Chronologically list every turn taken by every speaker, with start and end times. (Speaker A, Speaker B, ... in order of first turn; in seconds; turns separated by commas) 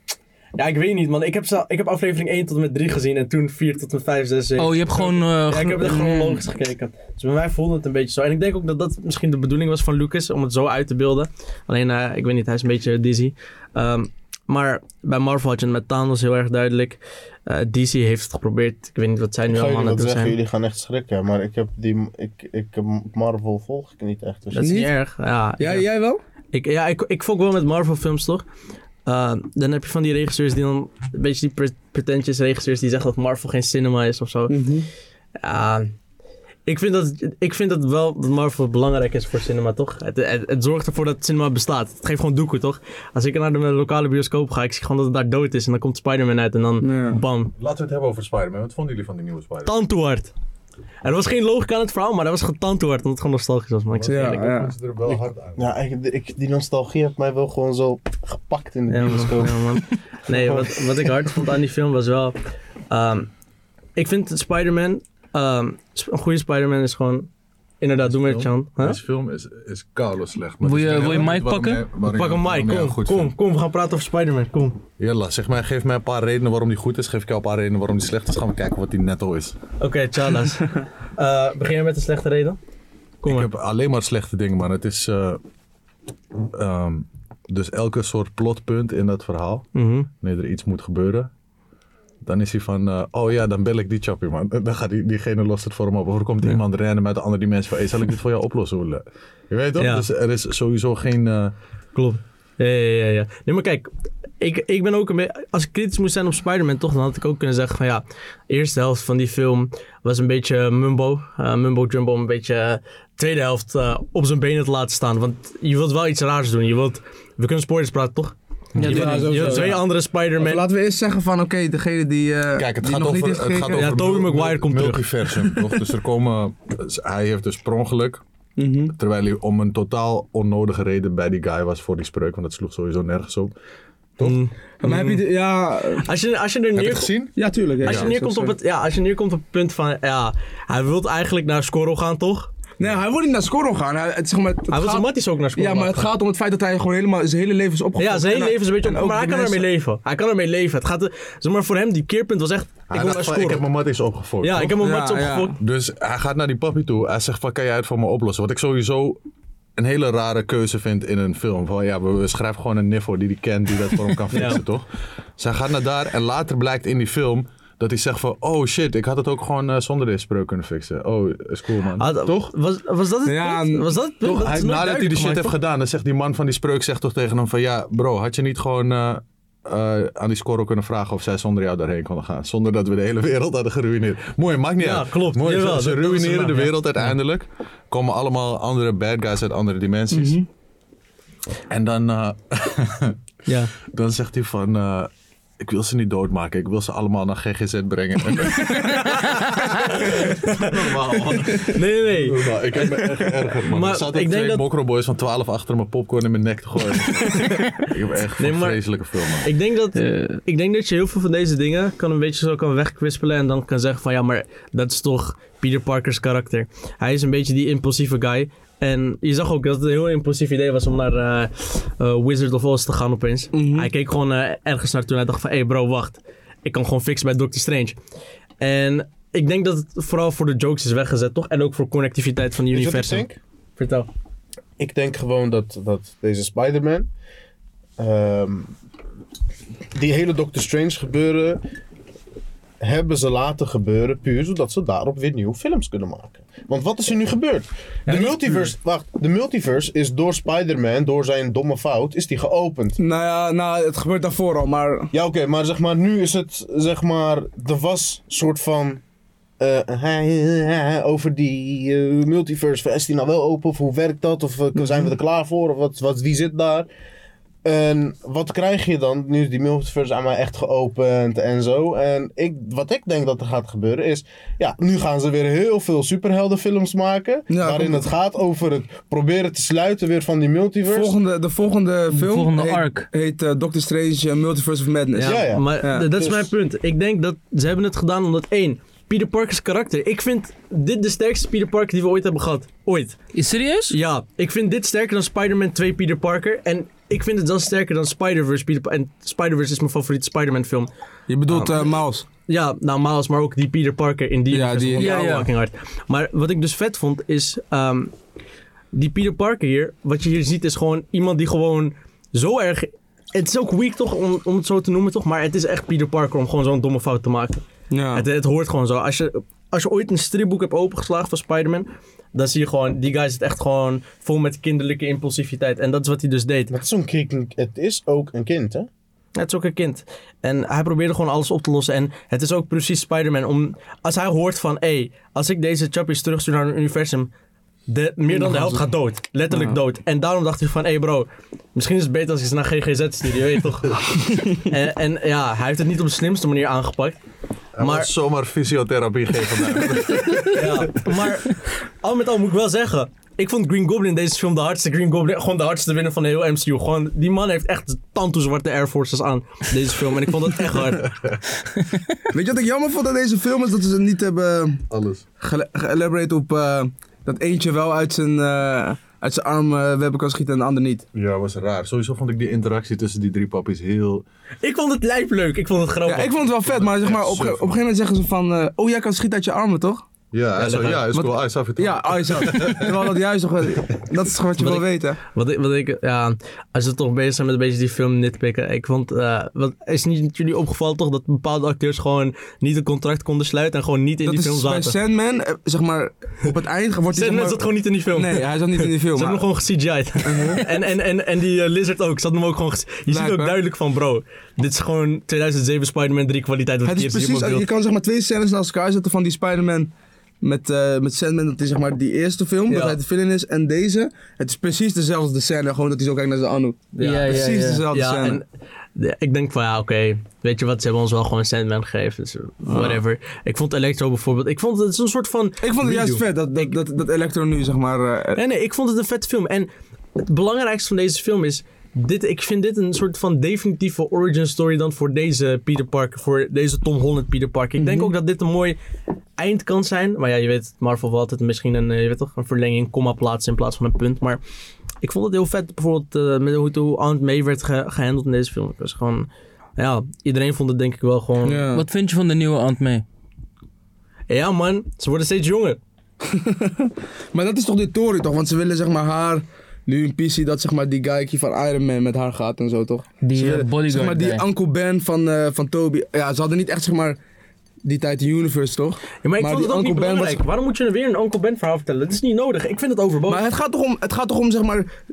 Speaker A: 0.6-20.4, Speaker B: 4.6-6.4, Speaker C: 19.5-24.7, Speaker A: 24.5-25.9, Speaker D: 24.6-24.9, Speaker D: 25.6-26.2, Speaker A: 26.5-28.4, Speaker A: 29.1-34.6, Speaker D: 34.5-34.9, Speaker A: 35.4-35.9, Speaker A: 36.7-47.5, Speaker D: 46.8-47.2, Speaker E: 47.6-49.8, Speaker A: 49.6-50.3, Speaker A: 51.0-54.5, Speaker E: 53.9-55.8, Speaker D: 54.1-54.7, Speaker C: 55.1-60.8, Speaker A: 58.9-62.4, Speaker A: 62.9-63.3, Speaker A: 64.0-67.3, Speaker A: 67.8-69.0, Speaker E: 68.1-73.3, Speaker B: 70.6-71.8, Speaker A: 72.0-74.8, Speaker E: 75.0-79.6, Speaker A: 79.8-82.6, Speaker A: 83.2-83.5, Speaker E: 83.2-85.4, Speaker E: 86.5-91.3, Speaker A: 89.8-90.1, Speaker E: 92.2-101.5, Speaker A: 99.8-100.1, Speaker A: 101.9-103.9, Speaker A: 104.4-120.7, Speaker E: 118.8-119.0, Speaker B: 118.8-119.7, Speaker D: 118.8-119.8, Speaker D: 120.4-123.9, Speaker E: 122.5-128.2, Speaker A: 123.7-125.1, Speaker D: 128.6-128.9, Speaker E: 128.9-133.5, Speaker A: 134.2-135.2, Speaker D: 134.8-136.1, Speaker A: 136.0-137.1, Speaker E: 136.8-137.3, Speaker D: 137.4-138.6, Speaker A: 137.8-142.5, Speaker E: 137.8-138.1, Speaker D: 142.8-149.7, Speaker A: 144.7-146.1, Speaker A: 148.0-153.7, Speaker E: 152.9-154.8, Speaker A: 154.4-155.6, Speaker D: 154.8-155.6, Speaker E: 155.6-159.2, Speaker E: 159.8-164.9, Speaker A: 164.3-164.6, Speaker E: 165.4-172.5, Speaker A: 172.0-175.6, Speaker D: 173.2-173.9, Speaker E: 174.2-190.4, Speaker A: 184.8-187.1, Speaker D: 190.1-190.5, Speaker E: 191.7-193.2, Speaker A: 193.5-193.7, Speaker E: 193.9-209.5, Speaker A: 198.7-204.6, Speaker A: 207.2-207.7, Speaker A: 208.4-208.8, Speaker A: 209.4-228.0, Speaker B: 210.0-210.4, Speaker D: 223.5-223.9, Speaker A: 228.6-234.1, Speaker C: 232.7-233.4, Speaker C: 234.8-237.1, Speaker C: 238.0-238.7, Speaker C: 239.9-241.6, Speaker C: 242.8-253.0, Speaker A: 248.1-248.7, Speaker D: 253.0-255.1, Speaker C: 255.1-259.0, Speaker C: 259.6-266.9, Speaker C: 267.6-281.1, Speaker D: 277.5-278.0, Speaker D: 280.9-286.5, Speaker B: 282.1-283.1, Speaker A: 285.1-293.2, Speaker C: 285.2-285.6, Speaker B: 293.3-294.0, Speaker A: 293.9-300.9, Speaker D: 301.3-302.3, Speaker A: 302.5-308.1, Speaker D: 304.5-305.2, Speaker B: 305.0-305.5, Speaker A: 308.9-326.7, Speaker D: 317.9-318.3, Speaker C: 326.7-328.9, Speaker A: 329.4-337.3, Speaker A: 337.9-347.2, Speaker D: 338.3-338.9, Speaker E: 347.8-351.1, Speaker A: 347.8-348.1, Speaker A: 350.5-361.1, Speaker E: 361.1-361.4, Speaker D: 362.3-364.8, Speaker E: 364.9-365.2, Speaker D: 365.4-371.1, Speaker E: 371.1-374.2, Speaker A: 374.6-376.5, Speaker D: 376.1-380.0, Speaker E: 376.6-377.8, Speaker E: 380.3-383.2, Speaker A: 380.6-381.1, Speaker D: 381.1-385.2, Speaker A: 384.6-395.0, Speaker D: 394.2-399.5, Speaker A: 397.1-407.7, Speaker D: 400.2-400.7, Speaker D: 403.1-403.6, Speaker D: 406.9-409.9, Speaker D: 410.4-418.4, Speaker A: 412.7-413.0, Speaker A: 416.9-426.7, Speaker B: 417.0-417.9, Speaker D: 422.7-423.0, Speaker D: 425.6-428.4, Speaker A: 428.4-438.8, Speaker D: 437.8-438.1, Speaker A: 439.4-444.4, Speaker A: 445.0-451.6, Speaker D: 451.4-451.9, Speaker B: 451.7-453.0, Speaker A: 454.3-455.8, Speaker D: 456.2-467.2, Speaker B: 463.2-464.4, Speaker D: 467.8-470.4, Speaker A: 469.2-473.4, Speaker D: 473.3-474.9